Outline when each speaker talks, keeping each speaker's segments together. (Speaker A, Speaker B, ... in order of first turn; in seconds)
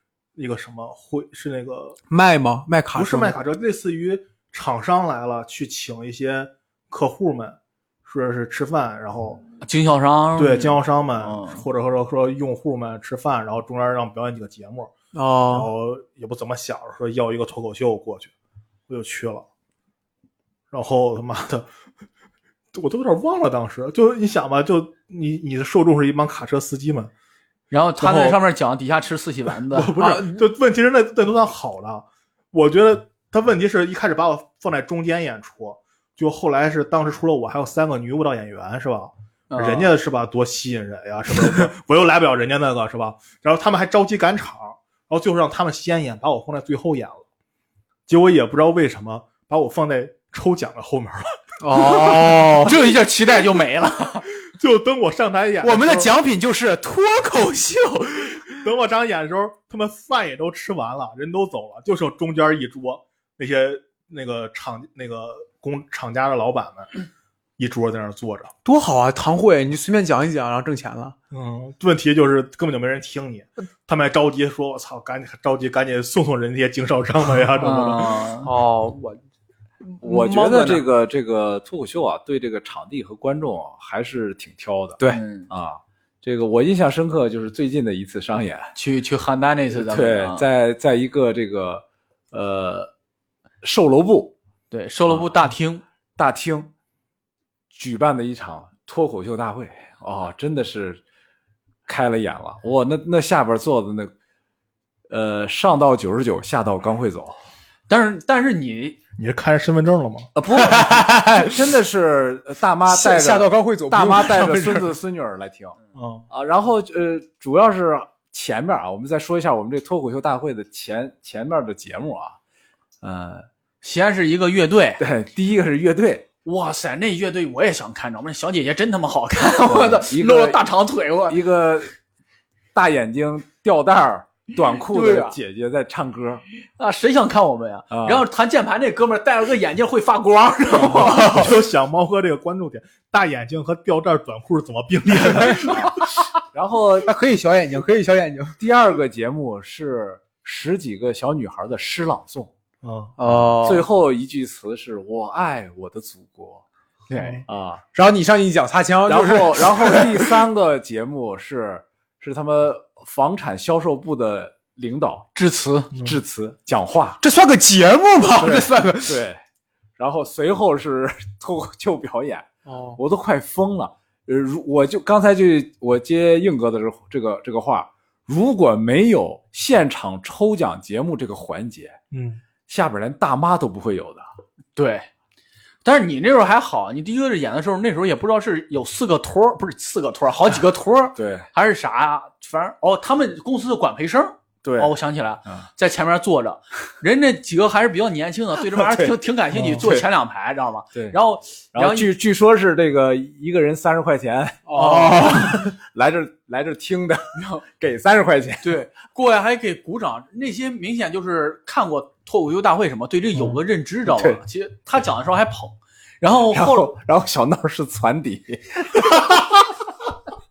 Speaker A: 0.3-2.0, 2.9-9.4, 10.3-14.9, 15.5-18.3, 18.9-19.4, 20.7-21.7, 22.7-27.1, 28.0-28.4, 29.7-47.2, 48.1-51.4, 54.5-56.1, 58.6-66.9, 67.6-68.5, 71.3-78.3, 109.2-110.3, 115.9-116.3, 141.0-145.9, 152.8-153.1, 157.2-157.4, 182.1-182.4, 199.6-199.8
Speaker B: 2.1-3.3, 15.1-15.7, 30.0-30.4, 51.6-52.8, 55.6-58.6, 68.6-71.2, 78.4-79.2, 79.9-80.8, 110.5-111.5, 112.9-114.9, 140.9-141.5, 147.1-148.6, 153.2-153.9, 157.9-160.4, 167.2-169.2, 172.7-173.0, 204.7-205.7
Speaker C: 9.6-11.6, 27.7-30.0, 39.5-39.9, 51.7-54.3, 77.6-78.5, 85.1-85.5, 88.7-90.4, 94.7-95.8, 107.9-109.0, 123.8-125.0, 126.4-131.4, 134.9-135.4, 136.8-141.5, 165.3-165.9, 184.8-185.1, 185.8-202.1, 207.3-207.6, 208.6-216.9
Speaker D: 80.0-88.7, 89.7-92.9, 93.6-94.3, 96.2-96.7, 97.7-101.0, 101.9-104.1, 105.1-107.4, 110.3-115.8, 116.3-122.4, 123.0-123.5, 125.0-126.2, 129.7-130.6, 131.3-131.9, 132.7-136.4, 137.9-138.2, 145.4-146.0, 146.5-147.1, 148.6-152.5, 153.2-157.8, 159.1-165.3, 165.9-167.2, 168.4-169.4, 170.0-182.0, 182.7-184.3, 191.2-191.5, 194.6-194.9, 198.7-199.1, 199.8-200.1, 201.7-208.7, 213.3-214.4, 216.5-219.6